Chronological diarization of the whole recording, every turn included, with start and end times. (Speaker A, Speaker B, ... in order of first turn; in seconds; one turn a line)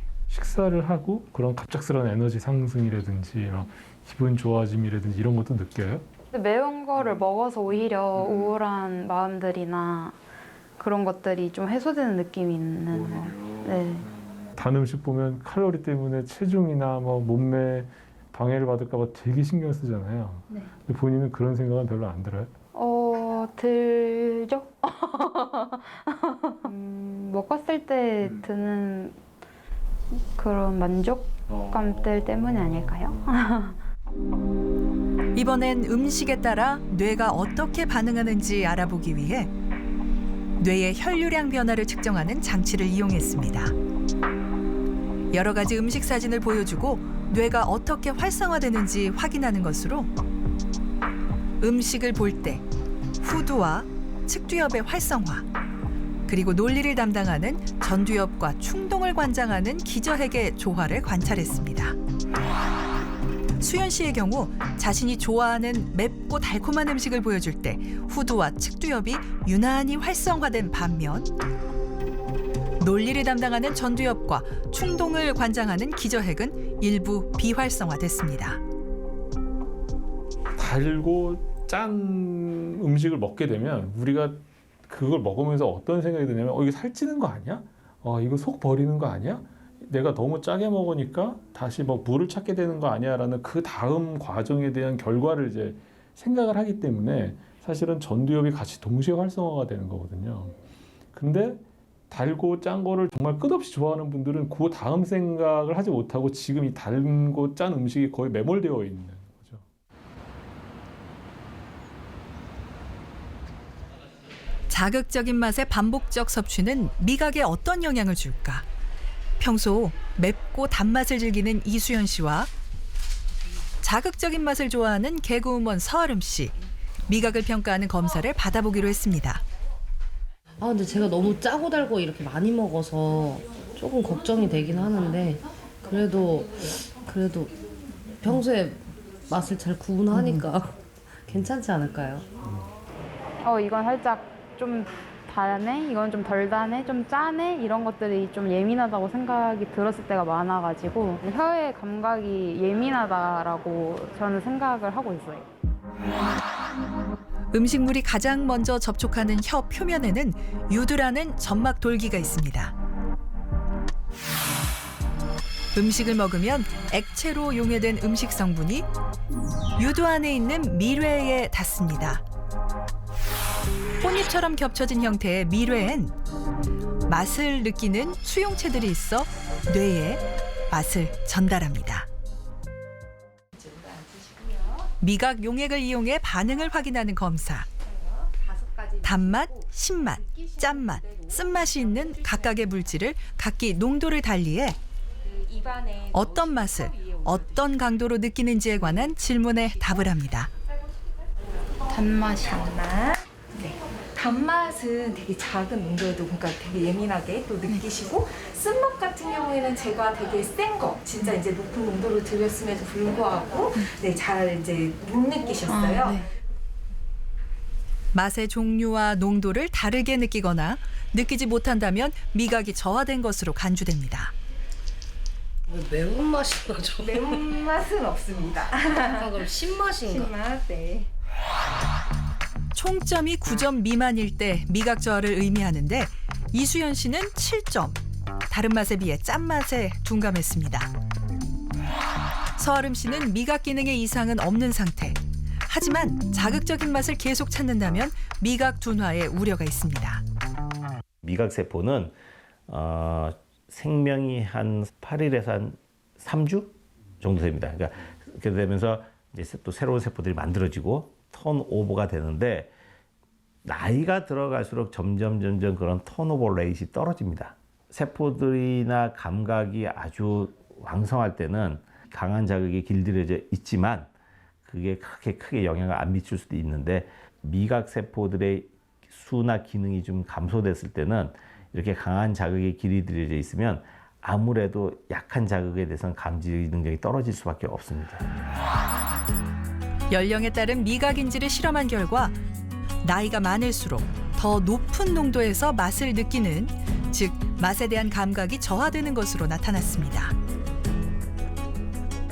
Speaker A: 0.3-6.0
Speaker B: 6.3-10.2
Speaker B: 10.8-14.1
Speaker A: 14.5-22.5
Speaker B: 22.7-29.1
Speaker B: 30.1-33.8
Speaker C: 35.3-39.5
Speaker C: 40.6-43.7
Speaker C: 45.3-50.1
Speaker C: 51.6-52.6
Speaker C: 53.2-55.5
Speaker C: 56.3-62.0
Speaker C: 63.6-71.3
Speaker C: 72.8-78.6
Speaker A: 80.6-100.5
Speaker A: 101.1-109.6
Speaker C: 114.7-118.6
Speaker C: 119.4-122.5
Speaker C: 123.8-126.5
Speaker C: 127.1-129.4
Speaker D: 130.6-137.5
Speaker D: 138.2-142.2
Speaker B: 143.4-155.5
Speaker C: 157.5-162.7
Speaker C: 165.7-168.9
Speaker C: 169.8-172.2
Speaker C: 174.0-176.1
Speaker C: 177.1-182.1
Speaker E: 183.6-184.9
Speaker C: 185.0-187.7
Speaker E: 187.8-192.7
Speaker C: 189.0-194.8
Speaker E: 195.2-197.6
Speaker C: 196.1-200.5
Speaker E: 198.7-200.1
Speaker B: 201.9-202.7
Speaker E: 202.4-216.2
Speaker B: 215.7-216.2
Speaker C: 218.1-224.3
Speaker D: 225.7-227.6
Speaker E: 227.0-231.1
Speaker D: 228.9-230.4
Speaker C: 232.7-240.9
Speaker C: 242.6-250.2
Speaker F: 251.2-252.2
Speaker F: 252.7-262.7
Speaker F: 263.6-274.1
Speaker F: 274.6-288.3
Speaker C: 290.1-292.4
Speaker C: 293.0-300.3